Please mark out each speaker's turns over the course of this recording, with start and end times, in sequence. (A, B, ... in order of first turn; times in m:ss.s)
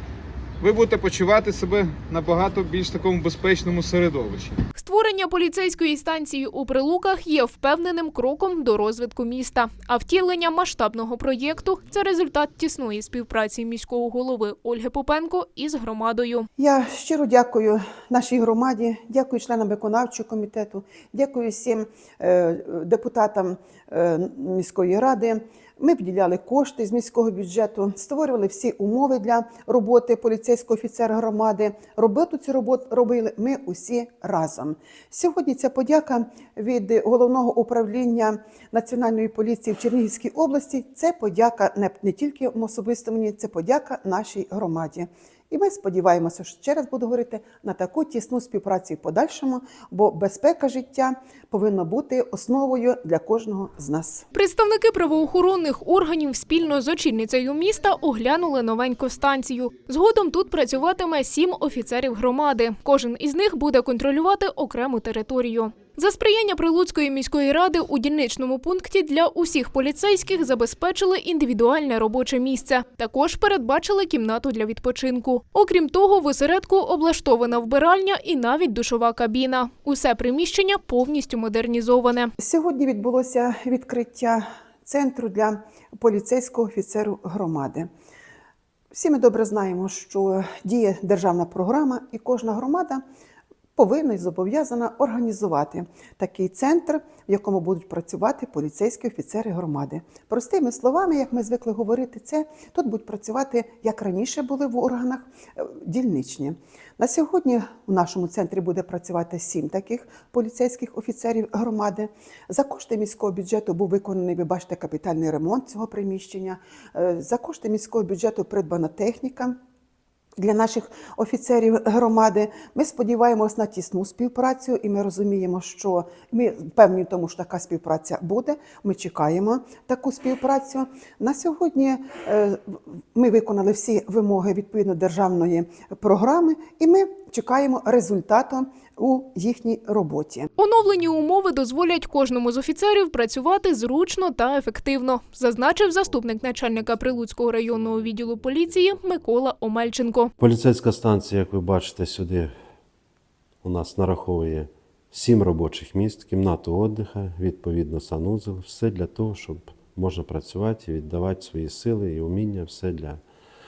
0:00.6-0:04.6 A
0:04.8-0:16.5 B
0:16.6-0:54.2 C
0:54.3-1:22.3 B
1:22.4-1:27.9 C
1:28.9-1:33.0 C
1:33.8-1:59.6 C
2:00.4-2:20.5 C
2:20.6-2:30.3 B
2:30.4-2:32.5 D
2:33.6-2:43.2 D